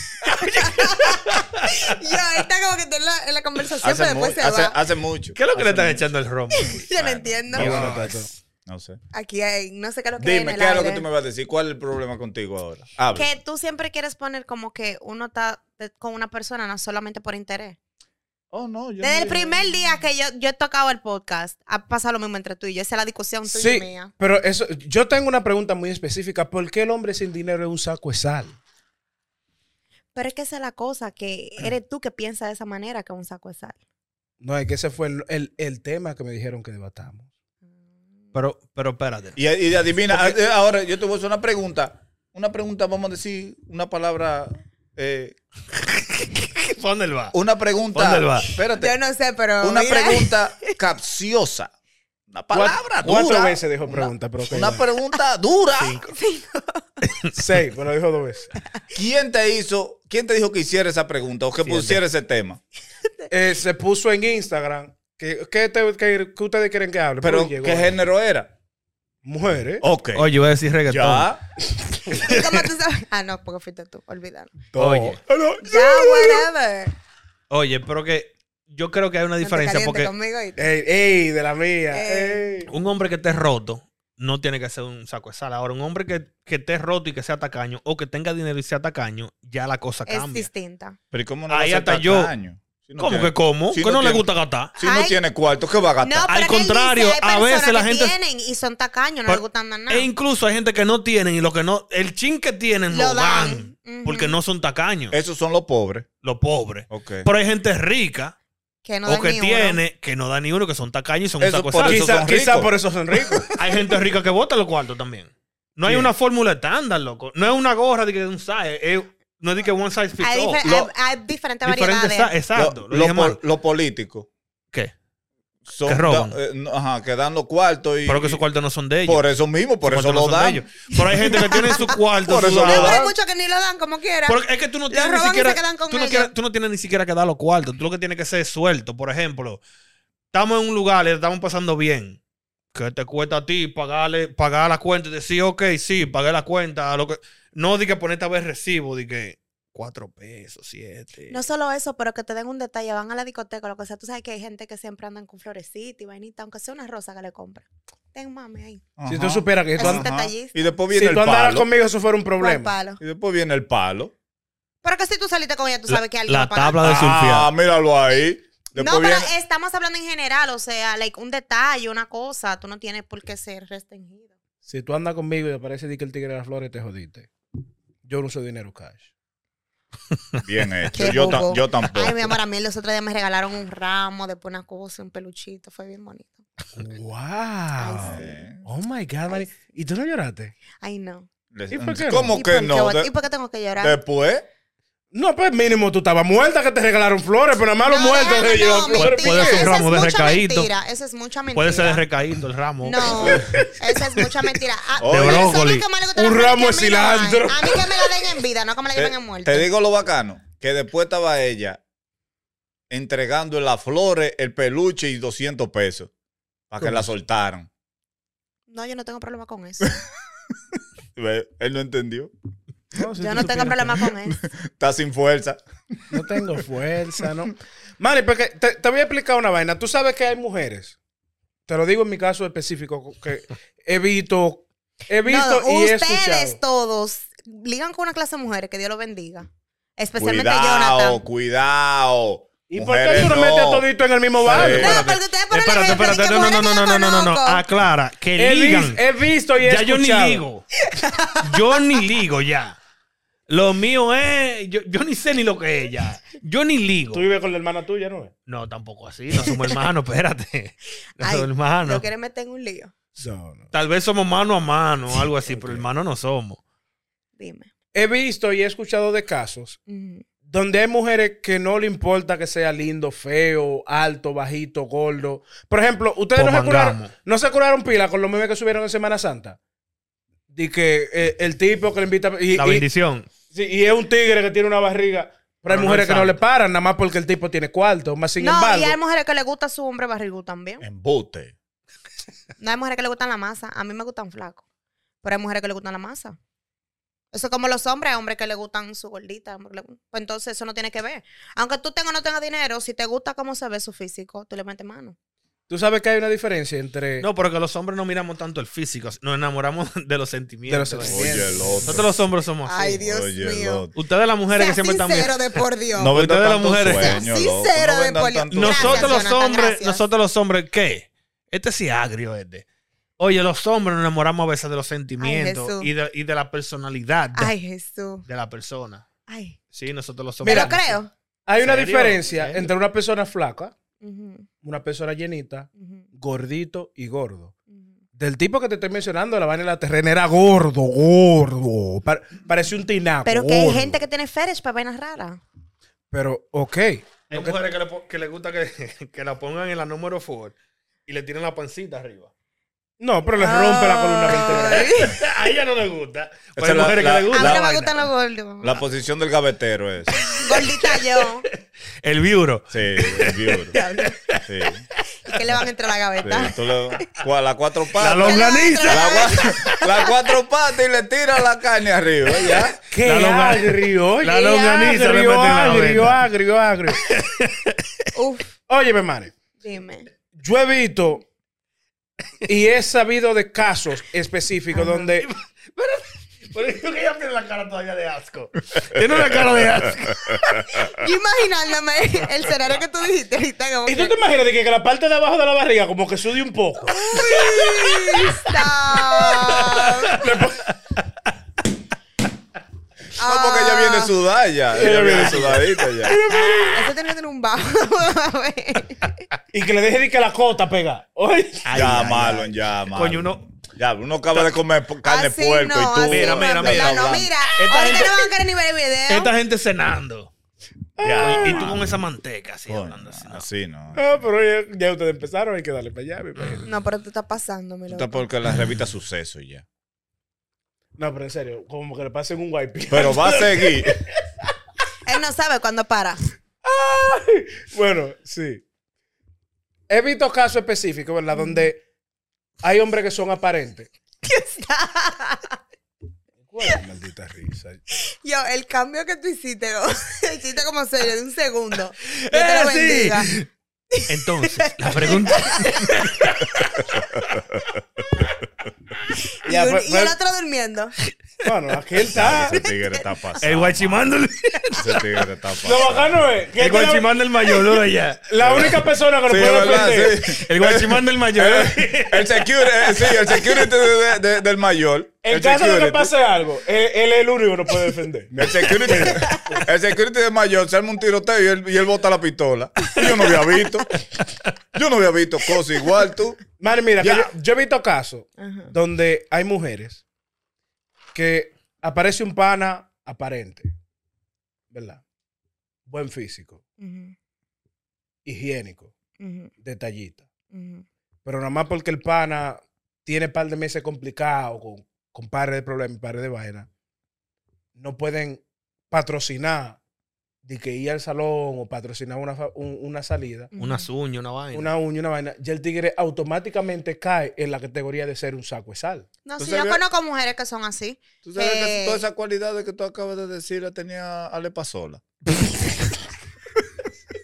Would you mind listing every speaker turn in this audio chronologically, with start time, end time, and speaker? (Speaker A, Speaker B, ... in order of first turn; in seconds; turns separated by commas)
Speaker A: 0.2-1.5, Speaker B: 0.4-4.8, Speaker C: 3.8-6.0, Speaker A: 5.3-6.8, Speaker B: 6.5-8.3, Speaker C: 6.9-8.0, Speaker D: 7.5-8.3, Speaker A: 7.6-8.0, Speaker C: 8.7-9.0, Speaker B: 9.1-11.0, Speaker C: 10.2-13.3, Speaker B: 13.1-17.8, Speaker C: 18.5-19.6, Speaker B: 19.0-24.1, Speaker D: 23.5-28.6, Speaker B: 30.1-33.8, Speaker D: 34.4-37.3, Speaker A: 38.3-39.4, Speaker C: 39.4-45.4, Speaker A: 46.0-47.4, Speaker C: 47.3-48.9, Speaker A: 47.9-48.6, Speaker B: 48.8-50.7, Speaker C: 49.6-51.7, Speaker C: 52.3-56.0, Speaker D: 52.5-54.8, Speaker A: 55.8-56.1, Speaker B: 56.1-56.8, Speaker D: 57.3-58.5, Speaker C: 58.9-62.6, Speaker A: 61.6-62.0, Speaker D: 63.3-67.9, Speaker C: 67.2-68.5, Speaker D: 69.2-69.8, Speaker C: 69.8-70.3, Speaker A: 70.1-71.3, Speaker C: 70.9-71.4, Speaker B: 72.1-74.5, Speaker A: 72.1-72.4, Speaker D: 74.7-76.4, Speaker A: 74.8-75.2, Speaker B: 75.6-76.9, Speaker A: 77.5-80.1, Speaker B: 79.4-80.6, Speaker D: 80.6-82.7, Speaker B: 81.9-82.4, Speaker A: 82.7-90.5, Speaker B: 90.1-91.0, Speaker C: 91.1-96.3, Speaker A: 91.5-92.3, Speaker A: 93.0-94.7, Speaker B: 94.8-95.2, Speaker B: 96.0-100.1, Speaker A: 96.3-98.1, Speaker A: 99.3-105.2, Speaker B: 102.9-104.4, Speaker C: 105.1-106.1, Speaker A: 106.2-108.3, Speaker C: 106.9-107.3, Speaker B: 108.8-109.8, Speaker A: 109.0-112.2, Speaker C: 111.4-112.7, Speaker D: 111.8-113.5, Speaker A: 113.5-120.6, Speaker B: 120.2-122.3, Speaker A: 121.6-123.4, Speaker C: 122.5-124.3, Speaker C: 125.7-128.4, Speaker A: 125.8-126.3, Speaker A: 128.1-129.2, Speaker C: 129.0-130.6, Speaker A: 129.8-133.0, Speaker B: 131.3-131.9, Speaker C: 132.2-133.1, Speaker B: 132.6-136.3, Speaker A: 134.3-139.6, Speaker A: 140.3-142.2, Speaker A: 142.7-151.4, Speaker B: 151.3-158.8, Speaker C: 159.0-161.7, Speaker D: 159.1-160.2, Speaker B: 159.8-160.5, Speaker D: 160.9-162.7, Speaker B: 162.4-163.0, Speaker C: 163.0-164.1, Speaker B: 164.8-166.8, Speaker A: 165.9-167.5, Speaker C: 166.8-169.3, Speaker B: 168.8-174.3, Speaker D: 174.7-177.3, Speaker D: 178.0-179.1, Speaker C: 180.4-182.3, Speaker B: 180.9-186.4, Speaker D: 186.8-190.5, Speaker B: 187.8-188.3, Speaker C: 188.0-188.6, Speaker B: 190.8-191.3, Speaker C: 191.5-193.1, Speaker D: 191.7-192.4, Speaker B: 192.3-194.0, Speaker C: 193.8-194.5, Speaker D: 195.1-199.8, Speaker B: 197.8-202.1, Speaker A: 198.9-200.7, Speaker A: 201.5-203.6, Speaker B: 202.8-209.7, Speaker D: 203.3-203.7, Speaker C: 205.0-205.5, Speaker A: 205.0-205.8, Speaker D: 206.1-208.4, Speaker C: 208.9-211.8, Speaker C: 212.9-216.1, Speaker C: 216.7-217.7, Speaker B: 218.7-219.9, Speaker C: 221.2-222.3, Speaker D: 222.9-224.0, Speaker B: 223.2-224.4, Speaker C: 224.2-225.6, Speaker D: 226.1-230.9, Speaker D: 231.7-236.6, Speaker B: 235.2-241.2, Speaker C: 240.2-243.9, Speaker D: 242.7-245.0, Speaker C: 244.4-245.0, Speaker A: 244.5-249.0, Speaker B: 244.6-247.6, Speaker D: 248.4-250.4, Speaker A: 249.6-250.6, Speaker B: 250.9-251.8, Speaker A: 251.4-252.8, Speaker A: 253.5-257.2, Speaker D: 257.1-258.3, Speaker A: 258.5-262.0, Speaker B: 261.2-262.9, Speaker D: 263.2-263.7, Speaker A: 263.7-266.6, Speaker D: 265.5-265.8, Speaker B: 267.4-267.7, Speaker D: 267.9-269.8, Speaker B: 269.9-270.2, Speaker D: 270.4-279.6, Speaker A: 276.3-277.1, Speaker D: 280.5-282.8, Speaker A: 282.5-283.3, Speaker D: 283.5-289.0, Speaker A: 285.7-286.4, Speaker B: 288.4-290.8, Speaker C: 290.8-291.5, Speaker B: 292.6-294.6, Speaker B: 295.2-296.4, Speaker B: 297.3-305.1, Speaker D: 305.7-307.3, Speaker A: 307.2-313.0, Speaker D: 310.7-312.0, Speaker C: 311.0-312.1, Speaker B: 312.6-313.9, Speaker C: 312.9-313.9, Speaker A: 313.9-317.2, Speaker B: 314.5-316.1, Speaker C: 316.0-319.3, Speaker B: 317.0-320.0, Speaker A: 318.5-322.6, Speaker A: 323.2-327.5, Speaker B: 325.2-325.9, Speaker B: 327.4-328.2, Speaker A: 328.2-329.0, Speaker B: 329.3-329.6, Speaker A: 329.7-331.0, Speaker D: 330.4-330.8, Speaker B: 330.4-331.1, Speaker D: 331.4-333.7, Speaker A: 331.6-332.7, Speaker B: 334.0-334.5, Speaker D: 334.6-337.5, Speaker B: 335.8-336.1, Speaker D: 338.2-344.0, Speaker B: 343.2-345.4, Speaker D: 346.1-347.6, Speaker A: 347.3-350.5, Speaker A: 351.1-352.3, Speaker D: 353.0-355.0, Speaker B: 353.4-355.2, Speaker A: 354.5-358.0, Speaker C: 356.6-357.7, Speaker B: 357.3-358.8, Speaker C: 358.6-360.3, Speaker A: 360.3-364.4, Speaker B: 360.3-361.4, Speaker C: 362.7-363.8, Speaker B: 363.7-364.2, Speaker C: 364.4-364.8, Speaker B: 365.2-367.1, Speaker C: 366.2-372.8, Speaker A: 368.0-369.8, Speaker D: 368.1-368.9, Speaker B: 368.2-370.1, Speaker A: 372.4-376.2, Speaker D: 372.9-377.0, Speaker A: 377.0-378.1, Speaker B: 378.1-378.5, Speaker D: 378.7-379.3, Speaker B: 379.6-380.1, Speaker D: 380.4-381.2, Speaker D: 382.4-385.3, Speaker A: 384.8-390.6, Speaker C: 388.8-390.6, Speaker B: 390.9-394.1, Speaker D: 393.9-397.6, Speaker B: 396.9-400.2, Speaker A: 399.3-400.1, Speaker D: 400.1-400.7, Speaker B: 403.2-404.1, Speaker C: 403.2-406.2, Speaker D: 404.7-406.8, Speaker A: 404.9-406.8, Speaker B: 406.7-409.2, Speaker D: 409.5-411.7, Speaker A: 411.6-413.4, Speaker C: 411.7-417.3, Speaker B: 415.0-419.3, Speaker A: 416.1-418.3, Speaker A: 419.1-420.3, Speaker D: 421.0-421.8, Speaker C: 421.0-421.9, Speaker A: 421.2-423.5, Speaker C: 422.7-424.0, Speaker D: 423.9-426.7, Speaker B: 426.6-428.2, Speaker C: 427.9-429.6, Speaker D: 431.0-434.0, Speaker C: 432.9-434.0, Speaker B: 435.1-436.2, Speaker D: 436.6-438.6, Speaker D: 439.9-441.8, Speaker B: 441.3-441.7, Speaker D: 442.6-443.9, Speaker B: 444.2-445.6, Speaker D: 446.4-447.8, Speaker B: 447.9-453.3, Speaker A: 452.1-453.5, Speaker B: 453.9-455.9, Speaker A: 454.1-456.7, Speaker C: 456.9-457.6, Speaker B: 459.4-460.9, Speaker D: 459.4-460.1, Speaker D: 461.4-462.6, Speaker C: 462.1-464.1, Speaker B: 462.5-463.4, Speaker A: 463.4-465.2, Speaker C: 464.8-466.2, Speaker D: 465.6-467.8, Speaker A: 466.6-468.8, Speaker D: 468.3-470.2, Speaker C: 468.4-468.7, Speaker C: 469.2-476.1, Speaker A: 470.3-473.6, Speaker D: 475.2-479.6, Speaker C: 478.3-483.9, Speaker B: 479.2-479.6, Speaker C: 484.7-486.4, Speaker D: 486.6-490.0, Speaker C: 487.0-487.3, Speaker B: 488.4-488.7, Speaker D: 491.1-493.7, Speaker D: 494.7-495.0, Speaker D: 495.9-496.6, Speaker B: 496.8-497.1, Speaker D: 498.2-498.9, Speaker B: 499.2-499.5, Speaker D: 499.6-500.2, Speaker B: 500.5-500.8, Speaker D: 501.2-506.7, Speaker D: 507.8-509.8, Speaker D: 510.4-513.5, Speaker B: 513.5-513.9, Speaker A: 513.6-514.7, Speaker D: 514.5-519.0, Speaker B: 519.2-522.0, Speaker C: 519.4-519.8, Speaker C: 521.2-525.0